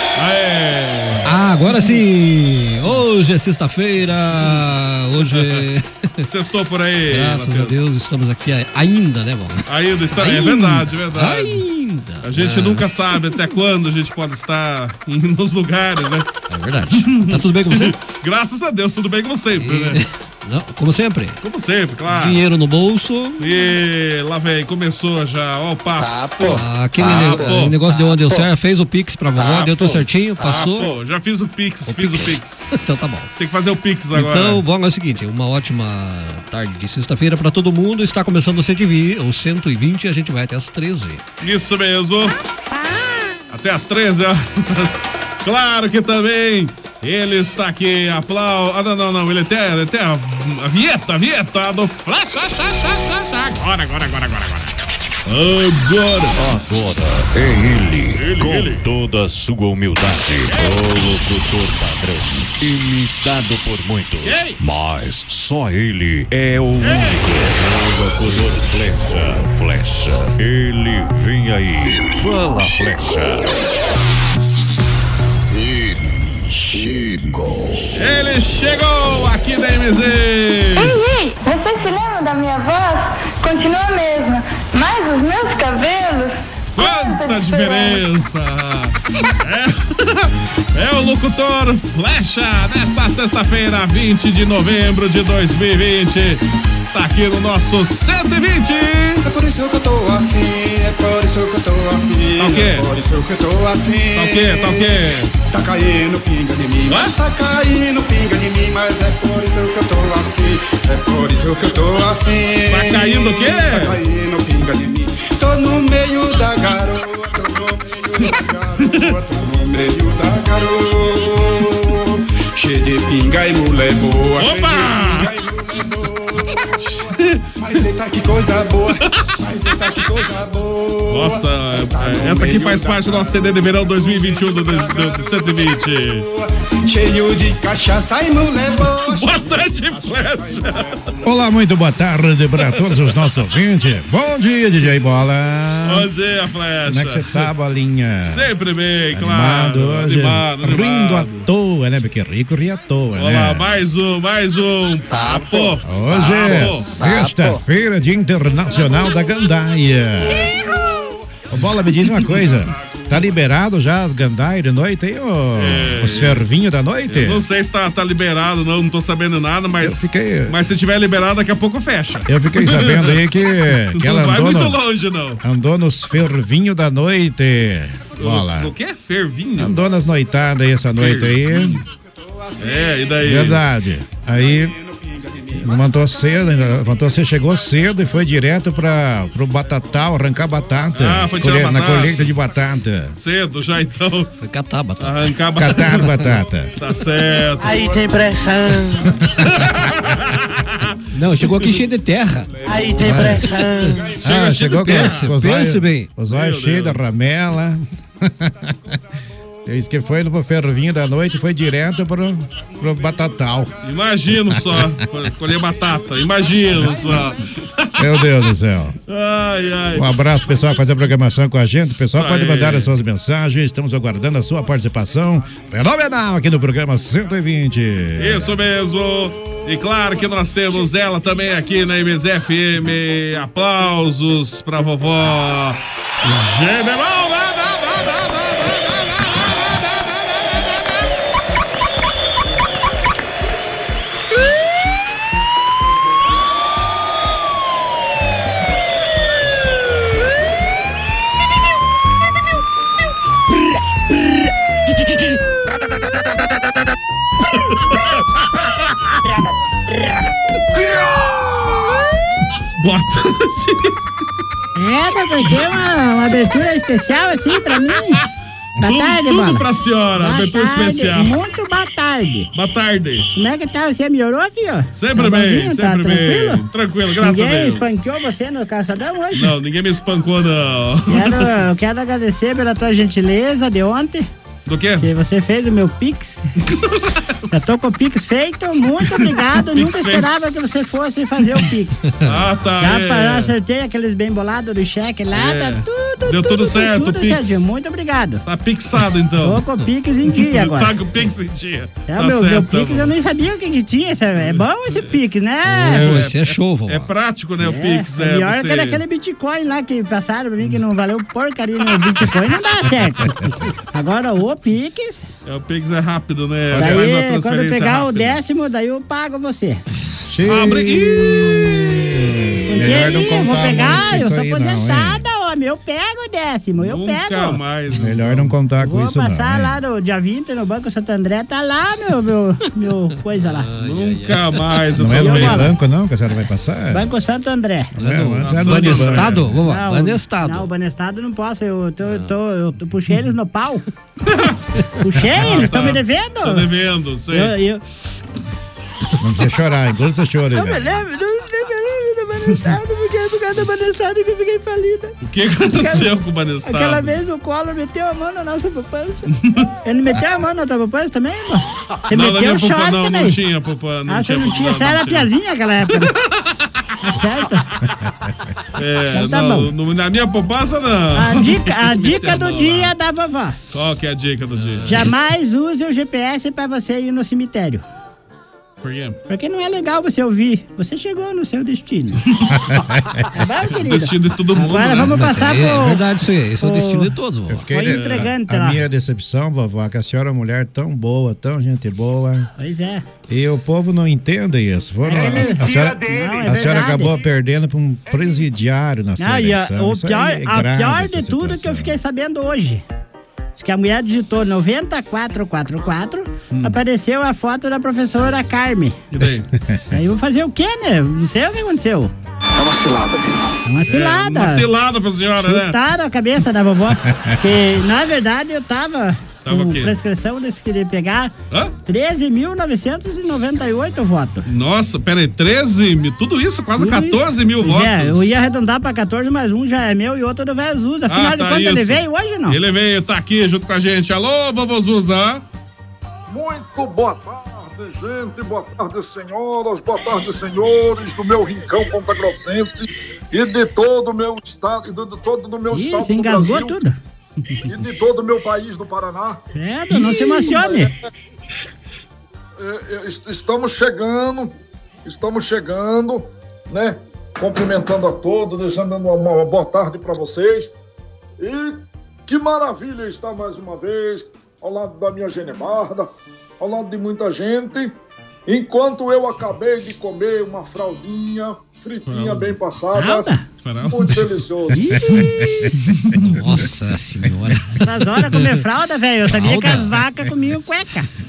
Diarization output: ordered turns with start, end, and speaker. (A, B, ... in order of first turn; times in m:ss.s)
0:00.2-0:02.0 A
0:01.2-0:05.9 B
0:04.4-0:05.7 A
0:06.2-0:07.9 A
0:07.1-0:13.2 B
0:09.7-0:11.7 A
0:12.2-0:16.3 A
0:16.5-0:18.0 B
0:16.9-0:20.0 A
0:19.6-0:21.4 B
0:21.4-0:22.4 A
0:22.1-0:23.4 B
0:23.4-0:28.5 A
0:26.4-0:30.9 B
0:29.4-0:32.7 A
0:31.9-0:33.3 B
0:33.4-0:34.6 A
0:34.1-0:41.2 B
0:41.4-0:42.4 A
0:43.5-0:54.7 A
0:55.3-0:56.4 A
0:56.4-1:13.6 C
0:58.2-0:58.8 A
1:00.5-1:00.8 A
1:04.2-1:04.6 A
1:06.8-1:07.2 A
1:16.7-1:17.5 C
1:17.9-1:21.0 A
1:20.8-1:28.0 D
1:26.8-1:39.2 A
1:39.2-2:21.4 E
1:42.4-1:42.9 A
1:44.2-1:45.3 A
1:46.8-1:47.2 A
1:52.7-1:54.0 A
2:04.4-2:05.3 A
2:11.1-2:16.3 A
2:18.9-2:20.9 A
2:21.2-2:26.1 F
2:25.8-2:27.5 A
2:26.9-2:28.5 F
2:28.2-2:31.5 A
2:29.1-2:33.7 F
2:33.2-2:37.1 A
2:35.8-2:40.5 F
2:40.6-2:41.6 E
2:41.5-2:47.4 F
2:42.8-2:43.2 E
2:45.6-2:46.5 A
2:47.1-2:53.2 A
2:49.8-2:50.6 F
2:52.3-2:54.8 F
2:53.9-2:55.4 A
2:55.4-2:58.7 F
2:58.2-2:59.8 A
2:59.6-3:01.8 F
3:01.0-3:01.8 A
3:01.8-3:03.3 E
3:02.6-3:03.6 A
3:03.2-3:04.7 F
3:04.2-3:06.2 E
3:05.6-3:13.2 F
3:10.9-3:12.3 A
3:13.2-3:14.3 A
3:14.4-3:15.4 B
3:15.0-3:17.8 A
3:15.6-3:16.7 F
3:17.6-3:19.0 G
3:17.7-3:18.1 E
3:19.5-3:21.7 A
3:21.1-3:24.0 B
3:22.5-3:24.3 E
3:22.7-3:23.9 G
3:24.2-3:27.8 F
3:24.2-3:25.5 A
3:24.6-3:26.1 B
3:26.2-3:27.0 A
3:29.7-3:33.8 F
3:33.8-3:38.2 A
3:34.5-3:34.9 F
3:36.6-3:37.3 E
3:38.0-3:39.0 F
3:39.1-3:40.1 A
3:40.0-3:48.5 F
3:42.1-3:42.9 A
3:48.2-3:59.9 A
4:22.8-4:23.9 A
4:24.8-4:28.2 H
4:28.8-4:29.7 H
4:28.8-4:31.4 A
4:30.2-4:32.5 H
4:32.6-4:33.3 A
4:33.4-4:36.6 H
4:34.9-4:38.0 A
4:37.2-4:39.5 H
4:39.3-4:41.5 A
4:41.1-4:44.3 H
4:44.7-4:45.1 A
4:45.0-4:46.5 H
4:47.5-4:52.1 H
4:49.1-4:50.3 A
4:52.2-4:53.5 A
4:52.8-4:58.4 H
4:55.3-4:57.7 A
4:58.4-4:59.6 A
4:59.4-5:00.9 H
5:00.3-5:03.1 A
5:02.1-5:06.1 H
5:05.7-5:07.1 B
5:05.8-5:09.0 A
5:07.6-5:15.3 H
5:15.4-5:18.4 A
5:16.7-5:17.0 F
5:16.7-5:19.8 H
5:20.3-5:25.2 F
5:20.4-5:22.1 A
5:22.7-5:27.6 H
5:26.8-5:28.6 A
5:27.9-5:29.8 F
5:28.8-5:33.7 H
5:33.4-5:34.6 B
5:33.8-5:35.8 A
5:35.0-5:37.1 F
5:35.1-5:35.8 H
5:36.9-5:37.9 H
5:38.0-5:39.4 F
5:38.0-5:40.7 B
5:38.4-5:39.5 A
5:39.6-5:43.8 H
5:45.0-5:46.7 H
5:45.4-5:47.5 A
5:47.3-5:47.8 H
5:49.2-5:50.9 F
5:50.5-5:55.2 H
5:55.2-5:57.2 A
5:55.7-5:56.1 H
5:56.7-5:59.3 H
5:59.8-6:03.4 H
6:02.1-6:05.3 A
6:04.1-6:06.1 H
6:07.0-6:07.7 H
6:08.8-6:12.9 A
6:09.1-6:09.7 H
6:11.2-6:13.6 H
6:13.7-6:15.1 A
6:14.9-6:17.8 H
6:18.8-6:19.2 A
6:19.3-6:22.3 H
6:23.3-6:26.0 H
6:23.8-6:25.3 A
6:25.0-6:27.7 B
6:26.6-6:27.2 H
6:27.5-6:32.5 F
6:27.7-6:28.8 H
6:27.9-6:28.3 A
6:32.6-6:33.1 H
6:33.3-6:42.0 F
6:35.0-6:37.2 H
6:39.2-6:42.8 H
6:43.6-6:49.0 H
6:49.1-6:49.5 A
6:49.9-6:52.1 H
6:53.7-6:54.7 H
6:53.9-6:55.8 A
6:55.4-7:01.3 H
6:59.5-6:59.9 A
7:01.9-7:04.5 H
7:04.5-7:08.4 A
7:06.8-7:12.6 H
7:11.1-7:15.4 A
7:16.3-7:26.8 I
7:25.7-7:27.0 H
7:27.7-7:29.4 I
7:29.5-7:30.9 H
7:30.0-7:30.9 I
7:32.6-7:34.5 I
7:35.1-7:40.7 I
7:41.4-7:47.9 I
7:48.5-7:53.3 I
7:52.1-7:52.6 A
7:53.0-7:53.4 H
7:53.6-7:54.4 A
7:53.8-7:54.8 I
7:54.7-7:55.5 H
7:56.2-7:58.6 B
7:57.8-8:01.1 H
7:59.3-8:00.0 B